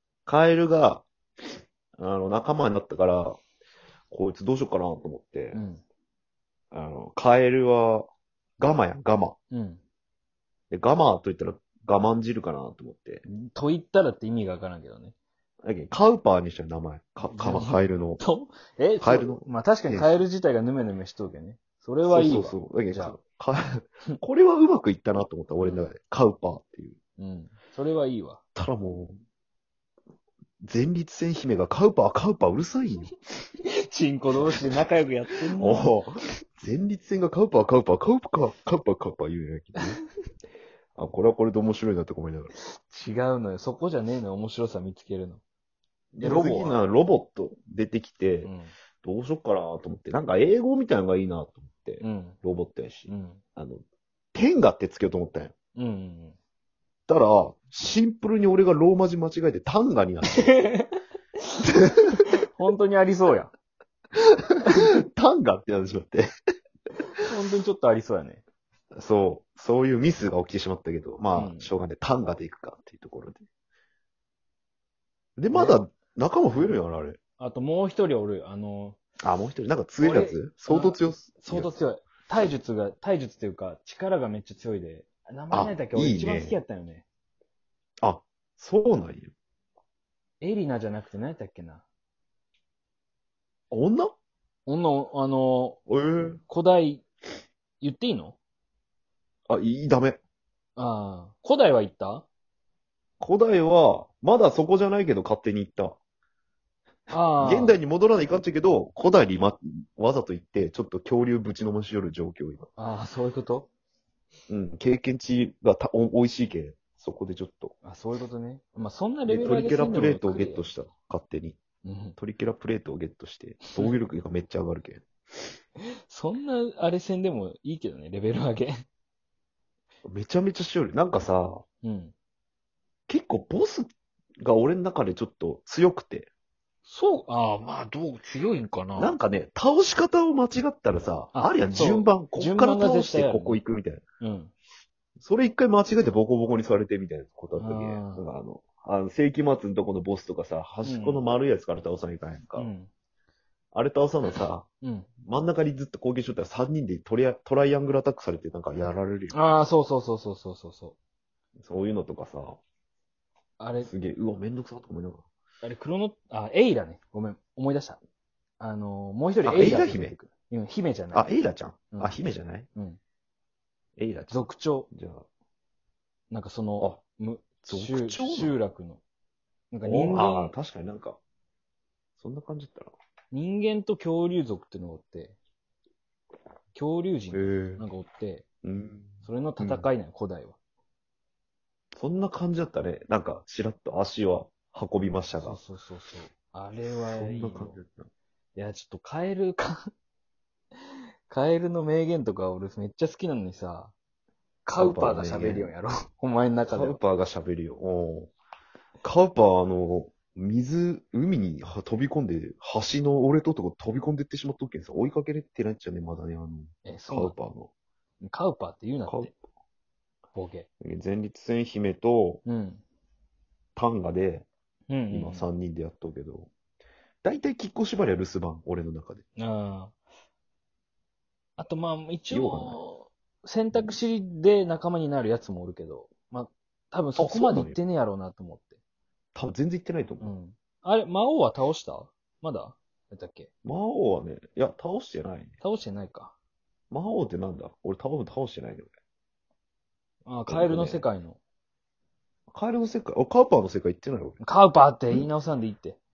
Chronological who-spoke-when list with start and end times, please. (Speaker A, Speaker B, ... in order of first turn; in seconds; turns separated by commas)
Speaker A: 0.3-1.1, Speaker A: 2.0-3.4, Speaker A: 4.1-5.6, Speaker B: 5.5-5.8, Speaker A: 6.7-8.1, Speaker A: 8.6-9.4, Speaker B: 9.5-9.8, Speaker A: 10.7-13.2, Speaker B: 13.3-15.1, Speaker A: 15.6-18.2, Speaker B: 17.3-23.2, Speaker A: 19.0-20.2, Speaker A: 22.1-27.0, Speaker B: 27.2-28.4, Speaker A: 28.6-29.2, Speaker A: 30.6-33.1, Speaker B: 33.9-35.9, Speaker A: 35.5-40.0, Speaker A: 41.0-42.5, Speaker B: 42.7-45.4, Speaker A: 46.1-48.5, Speaker B: 46.2-46.8, Speaker B: 48.4-48.7, Speaker A: 49.0-53.8, Speaker B: 52.0-52.4, Speaker B: 53.1-53.4, Speaker A: 54.3-55.5, Speaker B: 55.8-56.4, Speaker A: 57.1-60.5, Speaker B: 60.4-60.9, Speaker A: 61.9-62.2, Speaker B: 62.4-63.5, Speaker A: 64.2-66.2, Speaker B: 67.2-68.4, Speaker A: 69.0-73.4, Speaker B: 71.3-71.7, Speaker A: 75.4-77.2, Speaker B: 75.5-75.8, Speaker B: 77.4-79.0, Speaker A: 79.2-81.7, Speaker B: 80.0-87.0, Speaker A: 85.5-86.6, Speaker A: 88.0-89.3, Speaker B: 90.4-91.8, Speaker A: 93.7-94.1, Speaker B: 94.7-95.8, Speaker A: 95.9-96.4, Speaker B: 96.5-97.0, Speaker B: 97.8-98.4, Speaker A: 99.5-100.2, Speaker B: 100.8-102.3, Speaker A: 103.2-106.0, Speaker B: 107.1-107.8, Speaker A: 107.4-112.7, Speaker B: 112.8-113.7, Speaker A: 114.5-117.7, Speaker B: 117.8-120.7, Speaker A: 119.3-121.6, Speaker B: 121.8-122.2, Speaker A: 122.2-125.0, Speaker B: 126.1-128.8, Speaker A: 130.1-131.6, Speaker B: 131.8-132.1, Speaker A: 133.1-133.9, Speaker A: 134.4-136.3, Speaker B: 136.9-139.2, Speaker A: 139.0-144.0, Speaker B: 141.3-143.6, Speaker B: 144.2-144.5, Speaker A: 145.2-152.7, Speaker B: 147.6-148.2, Speaker B: 150.8-151.2, Speaker B: 152.6-152.9, Speaker A: 153.7-154.7, Speaker B: 154.8-155.1, Speaker A: 155.2-159.4, Speaker B: 159.3-160.9, Speaker A: 161.6-162.6, Speaker B: 163.6-163.9, Speaker A: 163.8-165.2, Speaker B: 165.6-168.0, Speaker B: 168.6-171.3, Speaker A: 169.4-170.2, Speaker A: 171.1-172.7, Speaker A: 174.0-175.2, Speaker B: 174.3-174.9, Speaker B: 176.3-179.0, Speaker A: 177.7-178.6, Speaker B: 179.7-180.5, Speaker A: 179.8-181.2, Speaker A: 182.2-182.9, Speaker B: 183.3-185.4, Speaker B: 186.7-188.4, Speaker A: 187.3-187.8, Speaker A: 188.6-189.9, Speaker B: 189.2-190.6, Speaker A: 192.0-195.6, Speaker B: 195.4-197.8, Speaker A: 197.1-198.1, Speaker B: 198.6-199.8, Speaker B: 201.3-203.9, Speaker B: 204.7-207.0, Speaker A: 204.8-205.7, Speaker A: 206.7-208.3, Speaker A: 209.0-217.7, Speaker B: 216.8-217.3, Speaker B: 218.2-219.3, Speaker A: 219.1-219.3, Speaker B: 220.3-220.7, Speaker A: 220.8-222.4, Speaker B: 222.5-222.8, Speaker A: 223.8-224.5, Speaker B: 224.9-225.5, Speaker A: 225.1-226.5, Speaker A: 227.2-229.2, Speaker B: 229.4-229.9, Speaker B: 231.6-238.8, Speaker A: 232.3-232.8, Speaker A: 237.2-237.8, Speaker A: 239.3-240.3, Speaker B: 240.2-243.5, Speaker A: 243.7-245.5, Speaker B: 245.6-246.3, Speaker A: 246.9-248.9, Speaker B: 250.3-251.4, Speaker A: 250.5-251.1, Speaker A: 252.5-254.4, Speaker B: 254.4-256.0